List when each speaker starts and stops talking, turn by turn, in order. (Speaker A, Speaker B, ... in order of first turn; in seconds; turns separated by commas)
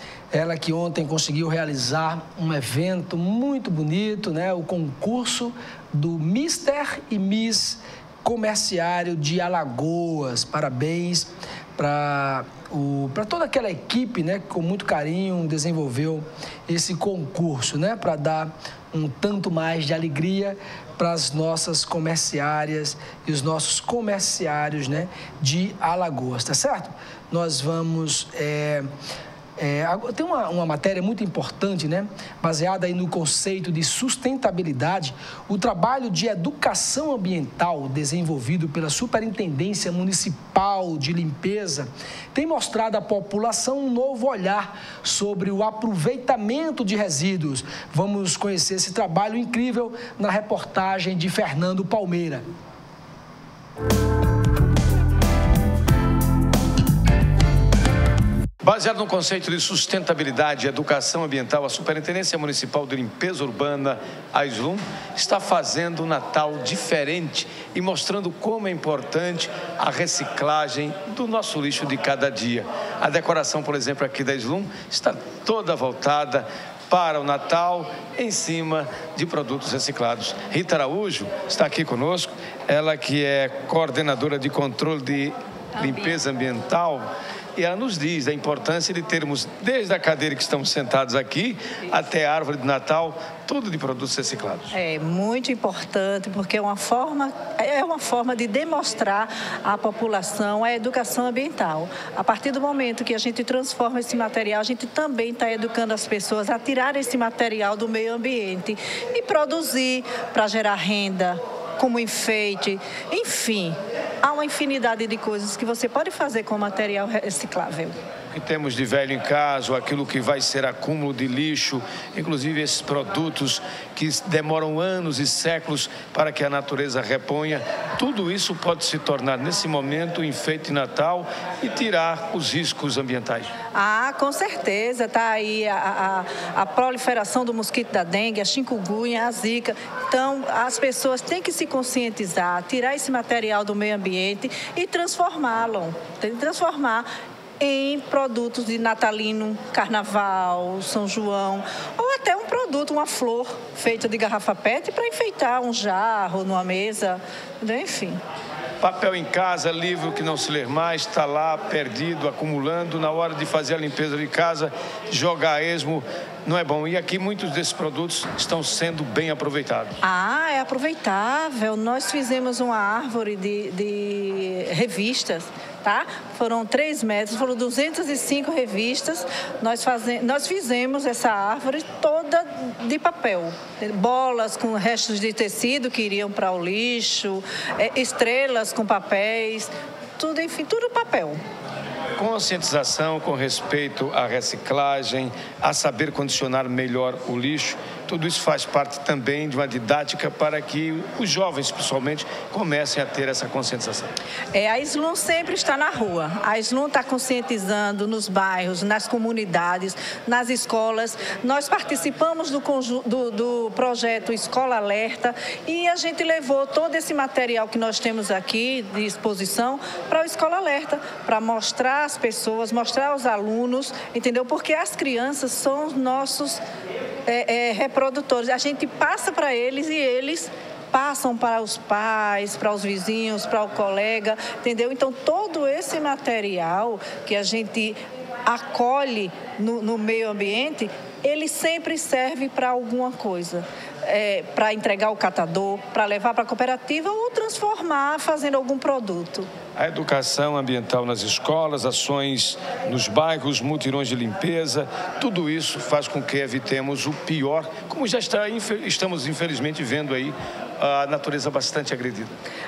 Speaker A: 0.3-28.9, Speaker A: 29.6-52.4, Speaker B: 58.6-94.7, Speaker C: 94.7-117.9, Speaker B: 118.3-133.5, Speaker C: 133.7-147.1, Speaker C: 147.6-158.2, Speaker B: 158.8-170.0, Speaker C: 170.0-191.4, Speaker B: 192.2-204.1, Speaker C: 204.5-226.6, Speaker C: 227.3-249.5, Speaker B: 249.8-262.3